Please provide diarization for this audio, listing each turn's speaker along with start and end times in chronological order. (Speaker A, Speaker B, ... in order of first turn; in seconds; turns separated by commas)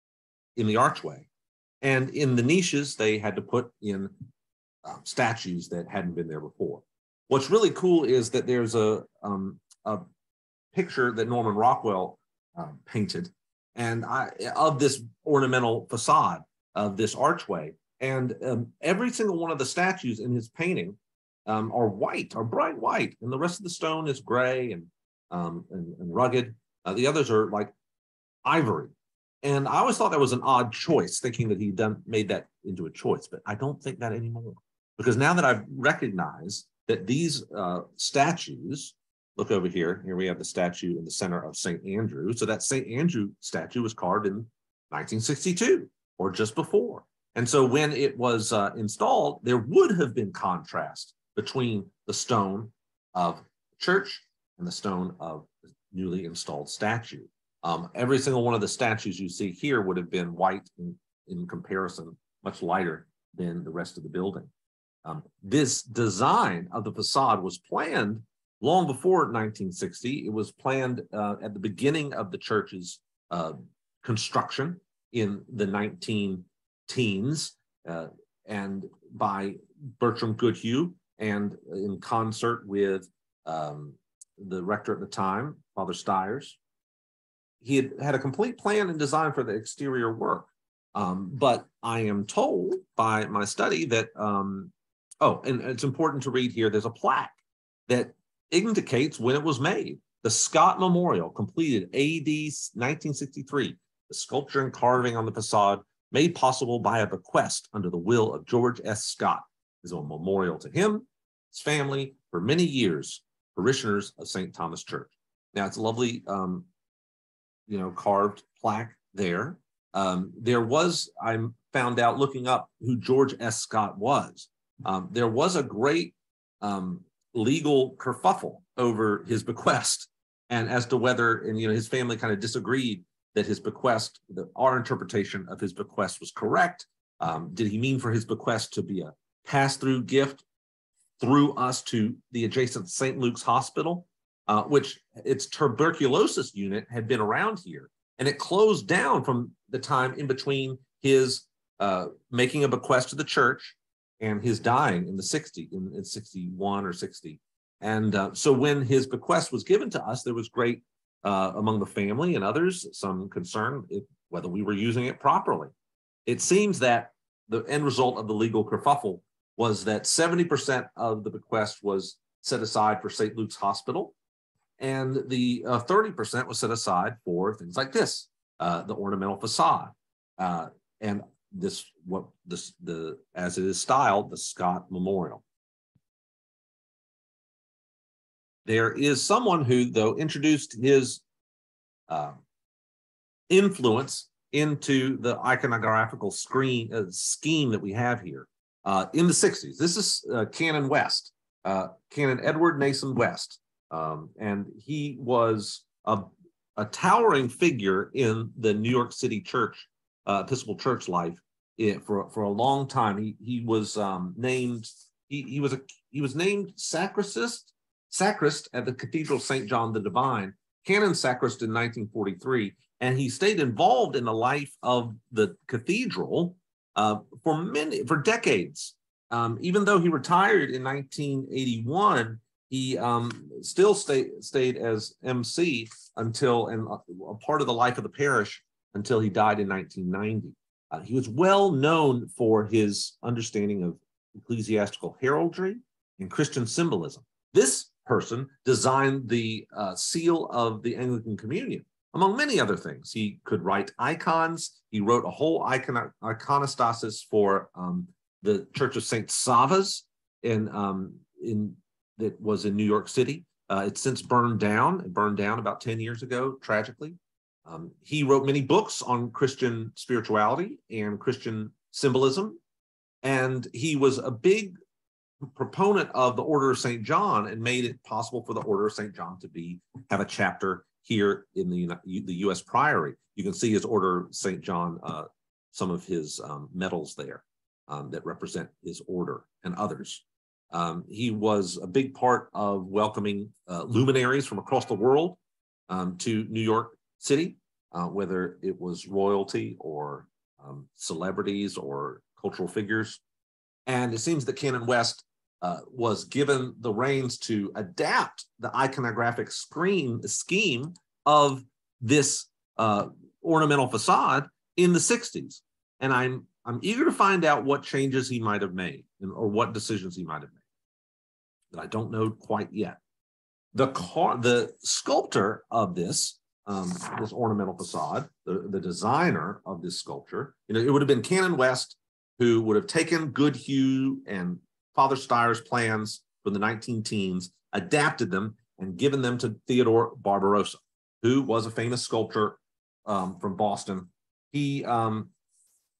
Speaker A: 0.6-1.3, Speaker A: 1.8-4.1, Speaker A: 4.8-10.0, Speaker A: 10.7-27.7, Speaker A: 28.4-64.5, Speaker A: 65.0-86.6, Speaker A: 87.6-97.4, Speaker A: 97.9-116.7, Speaker A: 117.7-140.4, Speaker A: 141.2-165.7, Speaker A: 166.2-174.1, Speaker A: 174.8-185.4, Speaker A: 188.7-191.2, Speaker A: 192.1-192.4, Speaker A: 193.5-272.6, Speaker A: 273.2-274.7, Speaker A: 275.4-303.2, Speaker A: 303.9-320.6, Speaker A: 321.7-323.0, Speaker A: 323.7-345.3